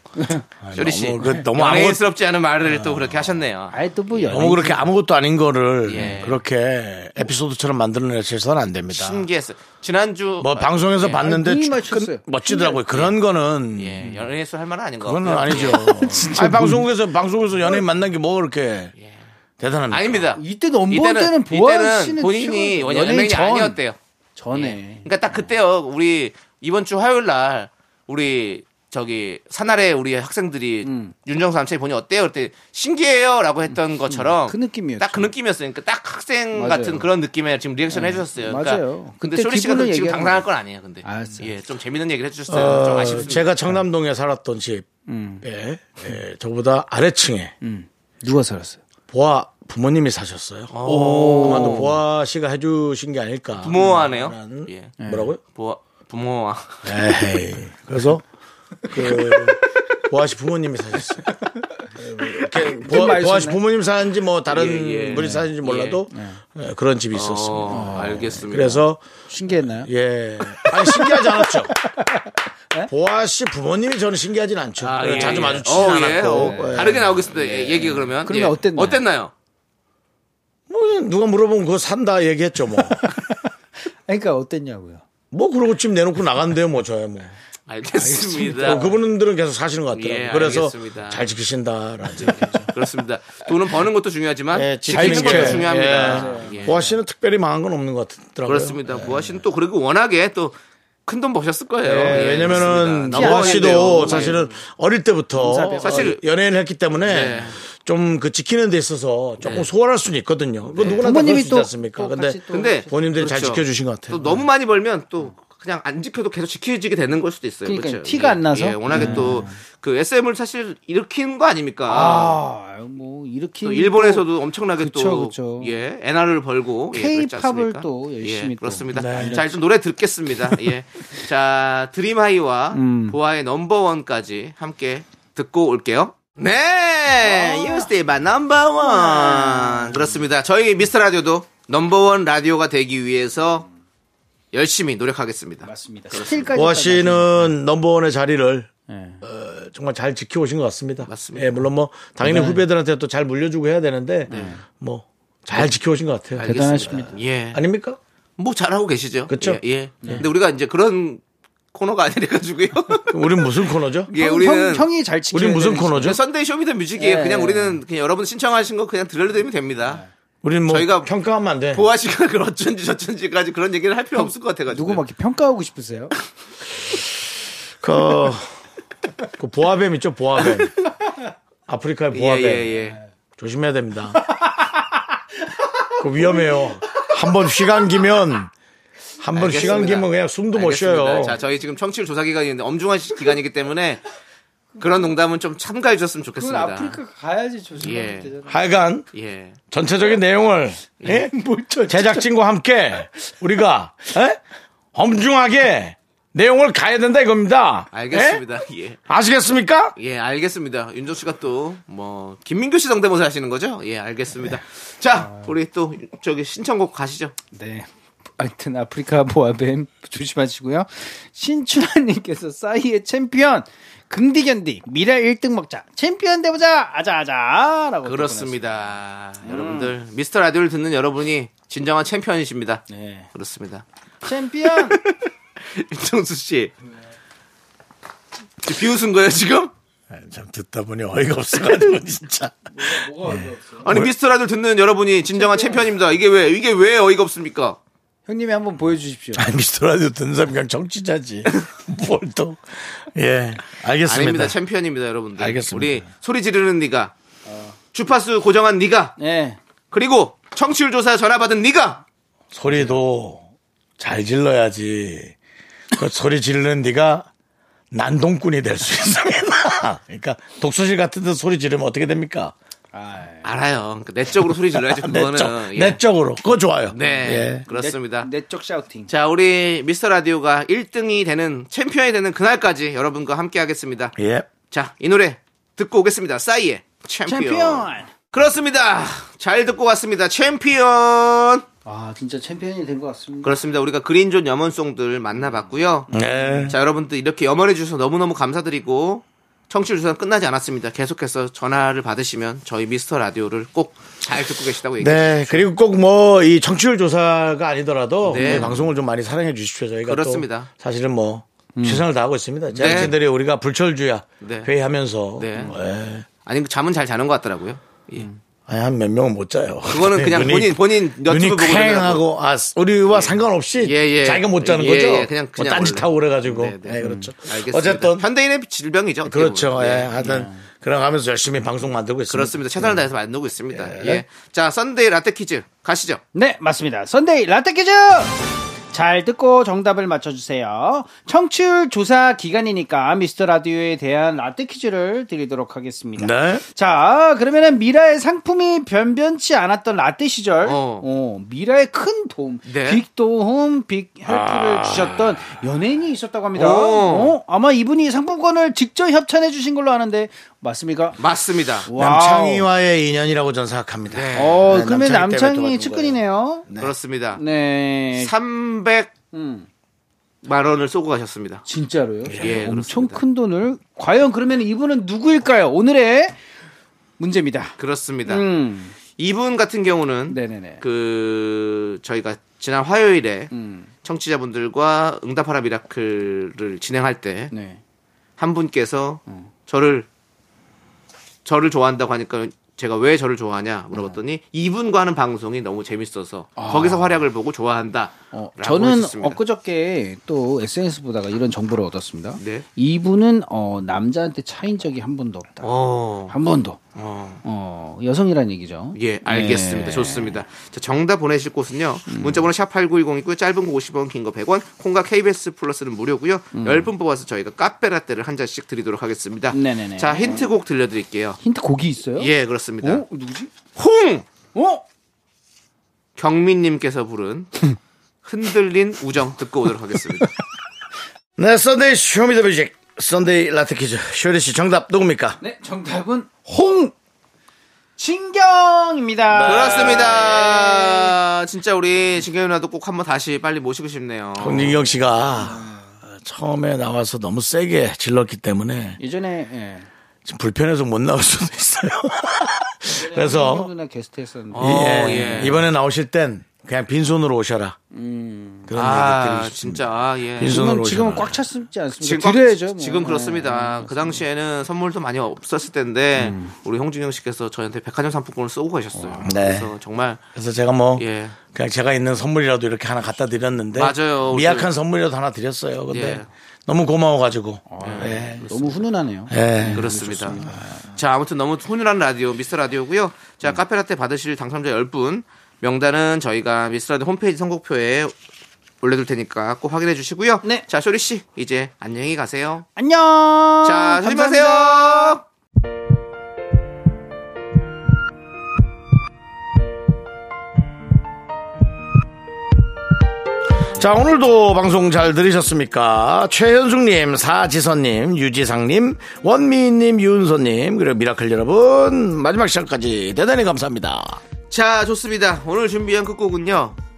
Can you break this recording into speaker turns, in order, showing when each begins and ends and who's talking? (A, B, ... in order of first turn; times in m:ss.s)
0:00.2-0:00.4 A
0:00.6-0:02.0 B
0:00.7-0:04.5 C
0:02.6-0:03.2 B
0:03.7-0:04.8 A
0:04.3-0:09.2 B
0:05.8-0:06.4 C
0:08.9-0:11.2 C
0:10.4-0:14.1 B
0:11.2-0:12.8 A
0:12.9-0:13.2 C
0:13.8-0:16.3 C
0:15.0-0:18.9 B
0:15.6-0:16.8 A
0:19.6-0:20.2 B
0:19.9-0:24.0 C
0:20.3-0:23.8 A
0:24.4-0:25.1 A
0:24.5-0:43.5 C
0:30.8-0:31.1 A
0:34.1-0:35.3 A
0:36.5-0:37.0 A
0:37.9-0:40.4 A
0:41.0-0:41.5 A
0:42.5-0:44.9 B
0:45.1-0:45.4 A
0:45.4-0:47.5 B
0:47.6-0:48.8 A
0:49.1-0:55.4 B
0:50.7-0:51.9 C
0:50.9-0:51.9 A
0:53.6-0:56.9 C
0:55.0-0:55.3 A
0:56.8-0:58.2 B
0:58.9-1:01.4 B
1:01.9-1:09.1 B
1:02.3-1:03.6 A
1:04.5-1:06.0 C
1:05.1-1:05.5 A
1:06.1-1:06.4 A
1:07.1-1:08.8 C
1:07.7-1:08.5 A
1:09.3-1:09.9 A
1:09.6-1:11.8 B
1:10.5-1:12.9 A
1:12.9-1:17.3 B
1:14.8-1:19.3 C
1:15.0-1:19.0 A
1:20.7-1:23.0 B
1:23.1-1:23.3 A
1:24.1-1:25.0 A
1:25.3-1:27.3 B
1:27.7-1:29.0 C
1:28.0-1:32.6 B
1:28.2-1:29.0 A
1:29.9-1:31.3 C
1:32.2-1:32.7 A
1:32.2-1:36.8 C
1:34.5-1:39.4 B
1:34.9-1:37.0 A
1:38.5-1:44.4 C
1:41.8-1:54.4 B
1:42.1-1:44.5 A
1:45.4-1:46.1 A
1:45.8-1:46.2 C
1:47.0-1:47.6 C
1:49.4-1:49.7 C
1:50.7-1:51.1 C
1:50.8-1:53.4 A
1:52.5-2:02.4 C
1:57.6-1:59.6 A
1:59.0-1:59.2 B
2:01.9-2:05.7 A
2:03.6-2:23.7 C
2:06.9-2:09.5 A
2:08.9-2:09.4 B
2:12.7-2:13.2 A
2:17.2-2:17.9 A
2:18.8-2:20.1 A
2:24.5-2:26.5 C
2:25.6-2:27.5 A
2:26.5-2:28.7 B
2:28.9-2:29.2 A
2:29.2-2:38.0 B
2:31.0-2:31.7 C
2:32.2-2:32.6 A
2:34.3-2:34.7 A
2:34.3-2:34.5 C
2:36.3-2:37.6 C
2:36.4-2:37.1 A
2:38.4-2:41.2 C
2:39.3-2:40.2 B
2:41.7-2:43.1 C
2:43.1-2:44.1 B
2:44.1-2:46.2 A
2:44.1-2:44.9 C
2:45.3-2:46.2 B
2:45.9-2:50.0 C
2:47.0-2:47.8 A
2:50.4-2:51.8 B
2:50.7-2:51.1 C
2:51.7-2:55.0 C
2:54.2-2:56.1 A
2:57.8-2:58.6 B
2:59.4-3:00.7 B
3:01.7-3:02.8 B
3:02.1-3:03.0 C
3:03.4-3:04.2 B
3:04.3-3:04.8 A
3:06.0-3:08.5 B
3:06.2-3:07.0 A
3:09.2-3:11.4 B
3:09.3-3:14.0 C
3:09.5-3:10.0 A
3:14.8-3:17.0 C
3:16.4-3:18.7 A
3:17.8-3:18.3 C
3:18.5-3:19.0 B
3:19.1-3:19.6 C
3:19.7-3:21.3 B
3:21.0-3:21.3 C
3:21.1-3:22.2 A
3:21.9-3:24.4 B
3:24.9-3:28.4 B
3:27.9-3:29.0 C
3:29.1-3:29.9 B
3:30.0-3:37.3 C
3:37.5-3:37.9 A
3:38.4-3:48.8 A
3:48.0-3:56.7 C
3:49.4-3:49.9 A
3:52.9-3:53.3 A
3:54.2-3:55.0 A
3:58.6-3:59.7 C
4:00.1-4:04.1 B
4:02.7-4:03.9 A
4:03.8-4:07.8 C
4:05.3-4:05.9 A
4:08.3-4:09.5 A
4:09.4-4:14.6 B
4:14.0-4:17.1 C
4:15.4-4:16.0 B
4:17.4-4:17.8 A
4:17.9-4:19.2 C
4:19.2-4:19.6 A
4:19.9-4:22.0 C
4:22.5-4:23.4 B
4:22.7-4:23.0 A
4:24.0-4:25.4 B
4:25.9-4:27.3 B
4:27.9-4:32.5 B
4:32.9-4:33.5 A
4:33.4-4:36.0 C
4:34.7-4:37.6 B
4:36.9-4:38.3 C
4:37.1-4:39.1 A
4:39.1-4:44.1 C
4:44.2-4:44.5 B
4:44.7-4:51.6 C
4:47.3-4:48.1 A
4:51.8-4:53.6 A
4:53.4-4:56.1 C
4:56.1-4:56.7 B
4:56.1-4:56.7 A
4:56.7-5:05.7 C
5:05.0-5:16.3 B
5:08.2-5:08.8 C
5:08.3-5:08.8 A
5:10.0-5:10.7 C
5:11.8-5:12.0 A
5:12.8-5:13.1 C
5:12.8-5:13.1 A
5:14.4-5:14.7 C
5:15.4-5:15.7 C
5:16.4-5:18.3 C
5:18.7-5:28.2 B
5:19.9-5:22.2 C
5:23.1-5:30.1 C
5:27.0-5:27.3 A
5:29.2-5:33.0 B
5:30.2-5:30.6 A
5:32.3-5:36.2 C
5:33.7-5:34.2 B
5:36.3-5:38.4 A
5:38.9-6:01.2 A
5:46.2-5:46.6 B
5:50.6-5:51.0 C
5:52.6-5:53.0 C
5:54.3-5:55.5 B
5:56.5-5:57.4 C
6:01.2-6:01.9 C
6:01.8-6:02.7 A
6:01.9-6:06.9 B
6:04.1-6:04.8 C
6:04.3-6:06.7 A
6:06.8-6:07.4 C
6:07.4-6:08.3 A
6:08.1-6:09.1 C
6:09.3-6:09.7 A
6:10.4-6:11.6 C
6:11.6-6:16.4 A
6:12.2-6:12.6 B
6:12.3-6:13.2 C
6:17.2-6:17.7 A
6:17.8-6:18.4 C
6:18.2-6:18.9 A
6:19.1-6:23.5 C
6:20.3-6:20.8 A
6:23.5-6:23.9 A
6:24.0-6:27.5 C
6:27.5-6:27.8 A
6:28.4-6:30.1 C
6:31.4-6:39.4 C
6:33.9-6:34.2 A
6:36.6-6:37.2 A
6:38.3-6:46.8 A
6:42.4-6:42.6 C
6:45.6-6:46.4 C
6:47.0-6:47.4 C
6:47.4-6:50.4 A
6:48.9-7:01.4 C
6:52.1-6:52.5 A
6:56.5-6:56.9 A
6:59.5-7:00.5 A
7:01.4-7:03.5 A
7:02.2-7:03.0 C
7:03.8-7:04.3 C
7:04.5-7:04.8 A
7:06.2-7:07.6 C
7:08.2-7:10.3 C
7:11.4-7:15.4 B
7:15.4-7:16.9 A
7:18.0-7:21.1 A
7:19.3-7:20.5 B
7:19.4-7:24.8 C
7:24.4-7:29.0 B
7:25.4-7:26.0 A
7:29.0-7:29.9 A
7:30.2-7:33.7 B
7:32.9-7:35.6 A
7:34.5-7:35.6 C
7:34.6-7:37.8 B
7:37.9-7:38.7 A
7:38.7-7:39.8 B
7:38.7-7:40.6 C
7:40.4-7:41.4 B
7:40.4-7:44.2 A
7:42.0-7:50.2 C
7:46.2-7:46.5 A
7:48.9-7:49.3 A
7:49.2-7:49.7 B
7:50.3-7:58.8 B
7:51.0-7:51.4 C
7:53.7-7:54.7 C
7:55.9-7:56.3 C
7:57.7-8:00.7 A
7:57.8-7:58.3 C
7:59.3-8:00.6 B
7:59.7-8:08.1 C
8:08.8-8:12.7 C
8:12.8-8:15.2 A
8:13.6-8:15.2 C
8:23.7-8:34.2 B
8:34.5-8:36.8 C